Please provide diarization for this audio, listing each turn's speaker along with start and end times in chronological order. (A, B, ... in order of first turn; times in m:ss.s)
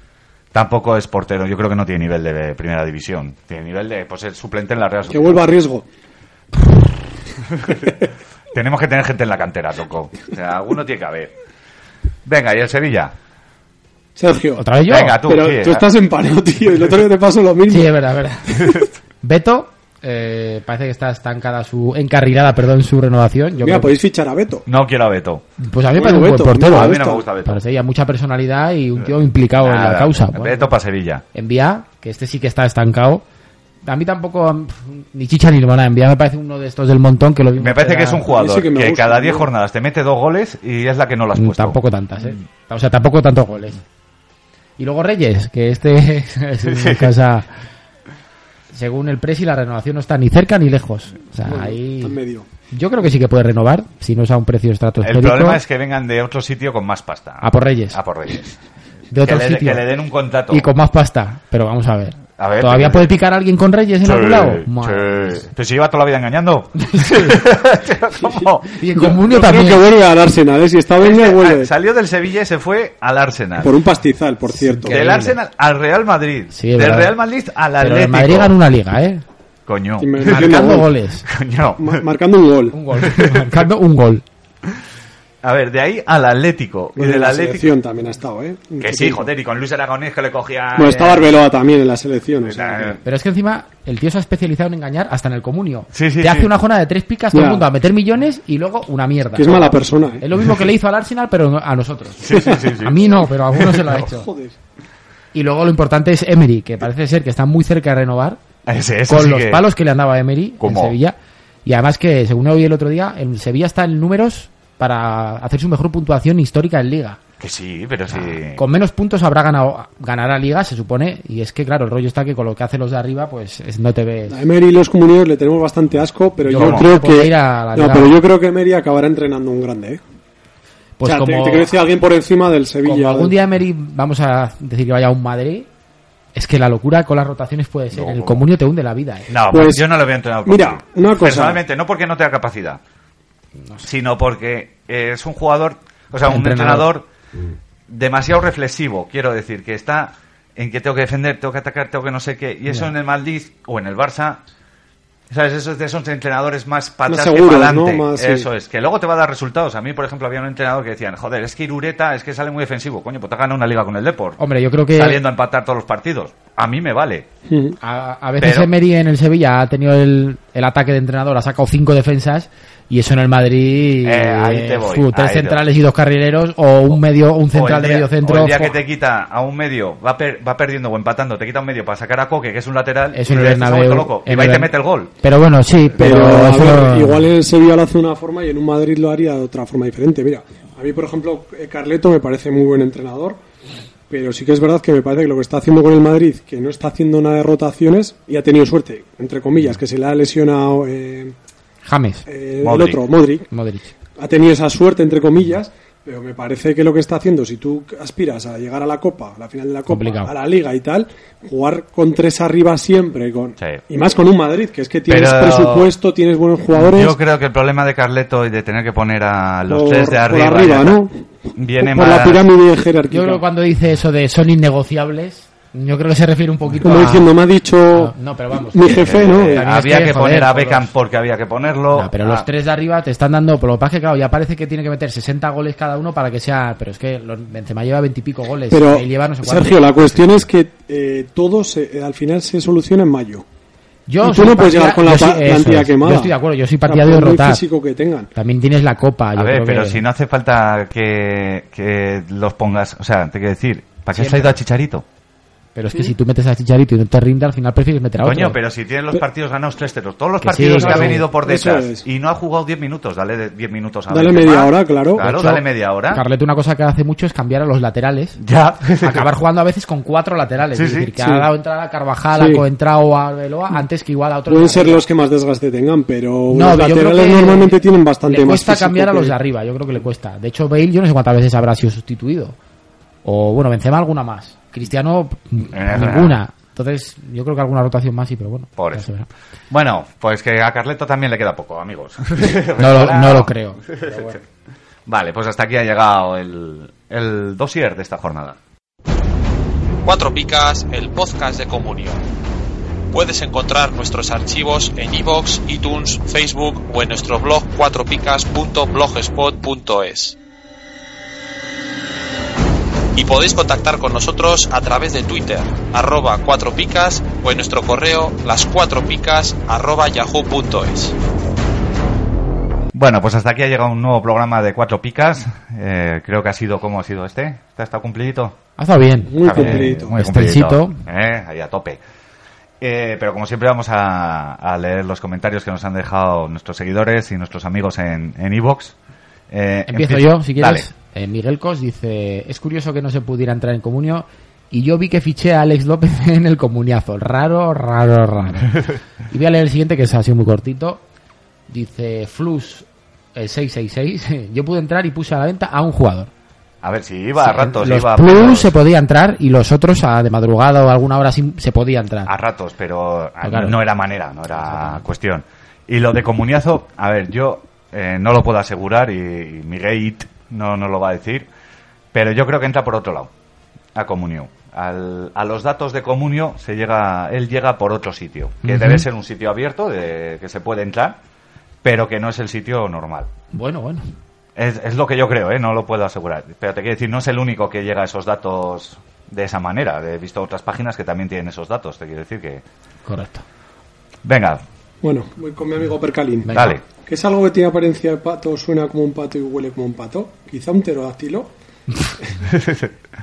0:00.5-0:05.4 A
0:05.1-0:05.9 B
0:07.5-0:07.9 A
0:08.5-0:11.3 A
0:12.2-0:13.1 A
0:14.2-0:14.7 B
0:14.6-0:15.2 C
0:14.9-0:15.9 A
0:15.2-0:17.9 B
0:17.7-0:24.0 C
0:23.6-0:24.6 B
0:24.7-0:25.4 A
0:25.6-0:30.7 C
0:26.0-0:27.3 B
0:26.7-0:27.6 A
0:29.0-0:31.2 A
0:31.3-0:33.2 C
0:33.8-0:38.2 C
0:37.6-0:41.8 A
0:38.3-0:39.5 B
0:41.4-0:43.8 C
0:44.8-0:47.5 C
0:46.6-0:47.1 A
0:48.7-0:52.2 C
0:51.4-0:52.5 B
0:52.7-0:55.6 C
0:55.0-0:58.6 A
0:57.4-0:58.0 C
0:59.1-0:59.8 C
0:59.2-1:00.7 A
1:00.5-1:05.4 C
1:02.4-1:03.1 A
1:04.0-1:08.7 A
1:06.8-1:07.4 C
1:08.7-1:09.8 C
1:09.0-1:11.7 B
1:11.0-1:13.8 A
1:13.6-1:15.0 B
1:14.5-1:15.4 C
1:14.9-1:18.6 A
1:16.5-1:17.2 C
1:17.8-1:19.2 C
1:19.7-1:22.0 A
1:20.0-1:20.9 B
1:20.2-1:21.3 C
1:21.8-1:22.8 B
1:22.7-1:24.2 C
1:23.0-1:23.6 A
1:25.4-1:27.7 A
1:27.0-1:29.3 B
1:28.8-1:31.4 A
1:30.8-1:33.0 B
1:32.4-1:33.0 A
1:33.0-1:44.3 C
1:35.9-1:36.5 A
1:37.3-1:37.7 B
1:39.4-1:40.2 B
1:42.2-1:43.8 A
1:43.8-1:44.6 B
1:45.3-1:48.4 C
1:48.7-1:49.7 A
1:49.1-1:57.2 C
1:50.6-1:51.0 A
1:57.4-1:58.6 A
1:58.1-2:04.4 C
2:04.3-2:10.0 B
2:06.5-2:08.2 C
2:06.5-2:06.9 A
2:11.0-2:11.7 C
2:11.0-2:13.4 B
2:12.8-2:15.7 C
2:16.4-2:19.3 C
2:17.9-2:18.4 A
2:19.3-2:22.8 A
2:19.5-2:19.9 B
2:20.5-2:21.6 B
2:23.8-2:27.1 A
2:26.2-2:26.9 C
2:27.9-2:34.4 A
2:35.3-2:44.4 A
2:37.1-2:38.5 B
2:44.4-2:45.2 C
2:44.9-2:47.3 A
2:47.5-2:47.8 B
2:47.8-2:58.8 C
2:48.4-2:48.7 A
2:54.0-2:55.6 A
2:57.5-3:05.1 A
3:03.1-3:07.3 C
3:06.0-3:13.4 B
3:14.1-3:21.4 B
3:21.8-3:22.3 C
3:22.3-3:23.5 B
3:22.6-3:23.0 A
3:23.5-3:23.9 C
3:24.2-3:37.2 B
3:29.9-3:30.3 C
3:35.1-3:36.0 A
3:36.7-3:41.0 A
3:39.7-3:41.2 B
3:41.6-3:42.5 A
3:41.8-3:43.4 B
3:43.1-3:47.3 C
3:46.8-3:48.1 B
3:47.9-3:50.9 C
3:48.7-3:49.6 B
3:48.9-3:52.5 A
3:51.9-3:59.8 C
3:58.7-4:03.4 B
4:04.1-4:07.6 C
4:04.2-4:06.4 B
4:06.9-4:08.3 B
4:08.4-4:10.0 C
4:09.4-4:15.0 A
4:14.1-4:14.6 C
4:15.8-4:18.6 C
4:18.2-4:26.2 A
4:20.4-4:21.3 C
4:20.8-4:22.1 B
4:24.1-4:25.3 B
4:25.2-4:28.4 C
4:28.4-4:29.3 A
4:29.0-4:35.1 C
4:30.7-4:31.1 A
4:31.2-4:31.5 B
4:32.3-4:32.6 B
4:34.5-4:39.4 B
4:36.5-4:42.6 C
4:43.2-4:49.3 C
4:45.7-4:46.4 A
4:48.8-4:49.1 A
4:49.7-4:54.3 A
4:52.8-4:54.4 C
4:55.1-4:58.6 A
5:00.0-5:02.2 D
5:03.1-5:10.4 D
5:13.2-5:21.1 D
5:22.9-5:28.6 A
5:28.8-5:31.0 C
5:29.3-5:30.2 B
5:29.4-5:32.0 A
5:32.8-5:39.0 A
5:39.5-5:40.9 A
5:39.9-5:51.0 C
5:51.7-5:56.3 C
5:56.8-5:58.8 A
5:57.4-6:02.3 C
6:02.3-6:11.5 A
6:03.4-6:03.8 C
6:04.7-6:05.0 C
6:12.1-6:13.3 A
6:13.9-6:21.2 A
6:18.6-6:19.0 C
6:21.8-6:23.3 A
6:23.5-6:24.0 C
6:24.6-6:32.6 A
6:33.1-6:33.4 C
6:34.2-6:34.6 A
6:35.0-6:41.5 B
6:36.5-6:36.8 C
6:36.5-6:36.8 A
6:42.6-6:42.9 A